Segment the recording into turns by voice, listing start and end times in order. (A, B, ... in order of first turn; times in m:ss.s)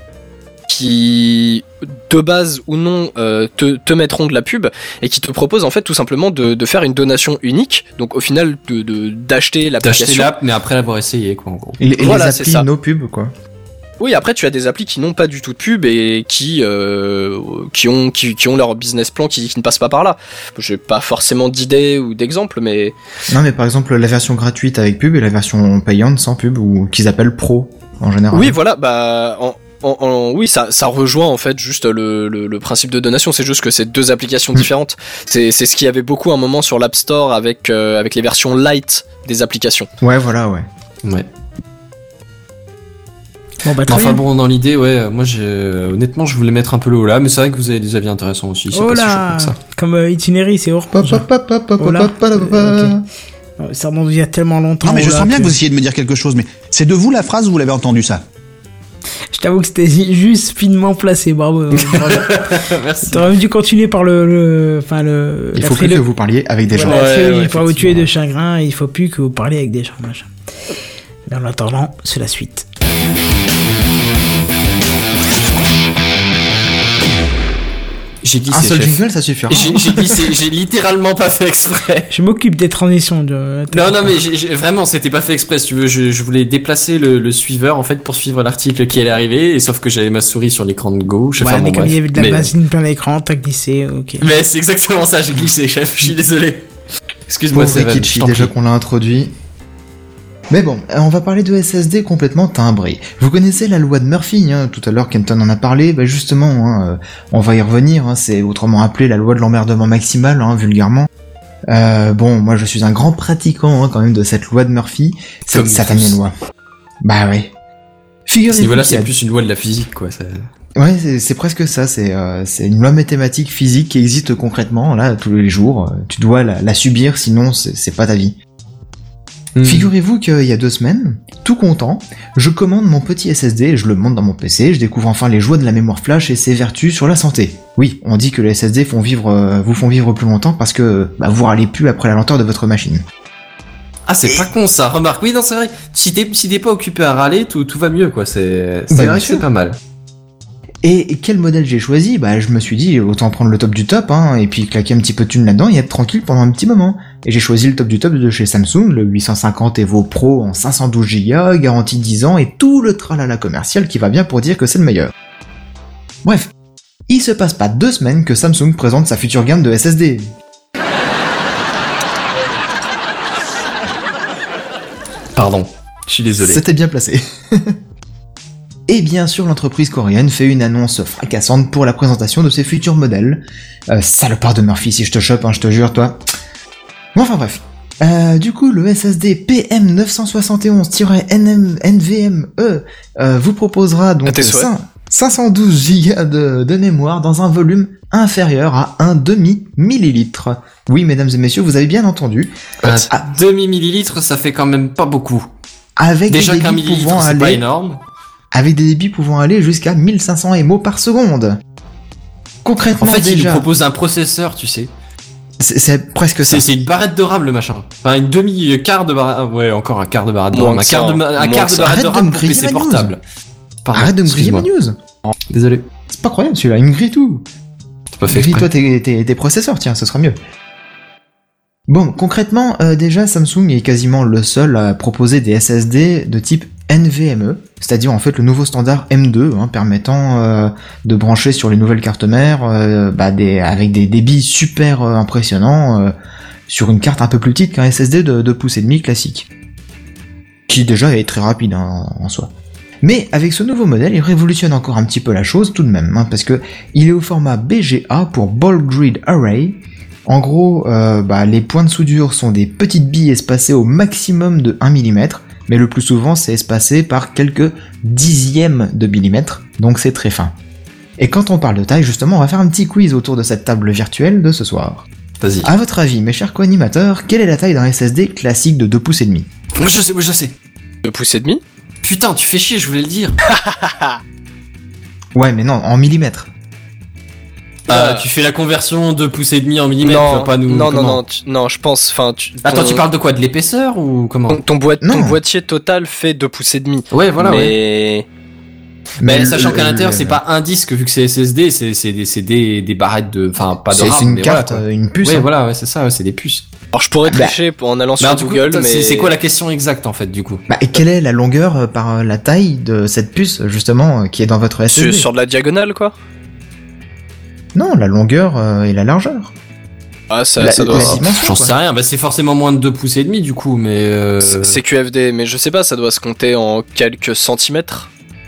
0:00.7-0:10.3 A
0:09.8-0:11.8 B
0:11.8-0:13.3 C
0:12.0-0:12.7 A
0:14.0-0:23.0 A
0:23.3-0:28.6 C
0:28.3-0:39.9 A
0:40.0-0:40.7 C
0:43.6-0:44.2 D
0:43.9-0:49.6 B
0:48.7-0:51.3 D
0:50.9-0:53.0 C
0:51.8-0:53.0 D
0:53.6-0:55.6 D
0:54.9-0:58.2 E
0:59.3-1:06.1 D
1:01.7-1:03.3 B
1:05.6-1:07.0 C
1:06.7-1:10.3 D
1:06.8-1:08.1 B
1:11.3-1:12.6 D
1:18.2-1:22.1 B
1:18.5-1:20.3 C
1:22.1-1:24.2 D
1:23.7-1:32.5 B
1:31.4-1:34.3 D
1:34.2-1:36.7 B
1:37.3-1:38.5 B
1:37.5-1:39.3 C
1:40.5-1:51.1 C
1:51.7-1:56.3 C
1:55.5-1:56.2 B
1:57.0-1:57.5 C
1:58.3-1:59.1 C
1:58.5-2:00.5 B
2:00.8-2:08.4 C
2:09.6-2:09.9 B
2:09.6-2:23.0 C
2:24.1-2:29.8 B
2:28.9-2:29.5 C
2:30.8-2:45.1 C
2:46.2-2:46.5 C
2:47.1-2:50.3 C
2:55.4-2:56.6 B
2:56.4-2:57.8 C
2:58.9-3:06.2 C
3:07.2-3:23.2 C
3:14.3-3:14.7 A
3:22.8-3:25.5 B
3:26.0-3:27.6 C
3:26.3-3:28.0 B
3:28.5-3:31.6 C
3:32.6-3:33.7 C
3:33.0-3:34.9 B
3:35.6-3:36.7 C
3:36.5-3:43.2 B
3:40.5-3:42.0 A
3:41.8-3:43.2 C
3:43.8-3:44.7 B
3:43.9-3:45.0 C
3:45.5-3:45.8 B
3:46.1-3:47.4 C
3:48.2-3:48.7 B
3:48.3-3:50.4 C
3:51.9-4:06.1 C
4:06.7-4:09.5 C
4:10.7-4:12.5 C
4:13.0-4:30.5 C
4:31.2-4:35.1 C
4:35.4-4:35.7 B
4:35.6-4:39.5 C
4:39.8-4:40.5 B
4:41.0-4:41.6 A
4:42.0-4:43.4 B
4:43.5-4:44.2 A
4:45.4-4:46.5 C
4:47.9-4:51.2 B
4:47.9-4:48.3 A
4:50.0-4:53.0 A
4:52.6-4:54.6 B
4:54.5-4:58.3 A
4:55.0-4:55.4 C
4:57.1-4:57.8 B
4:59.2-5:00.4 C
4:59.2-5:06.7 B
5:03.9-5:05.5 C
5:06.9-5:09.3 A
5:07.3-5:07.6 C
5:08.2-5:10.6 B
5:10.7-5:15.3 C
5:14.9-5:16.2 A
5:17.8-5:19.5 C
5:20.3-5:21.2 A
5:20.6-5:21.7 C
5:20.9-5:24.8 B
5:24.4-5:28.1 A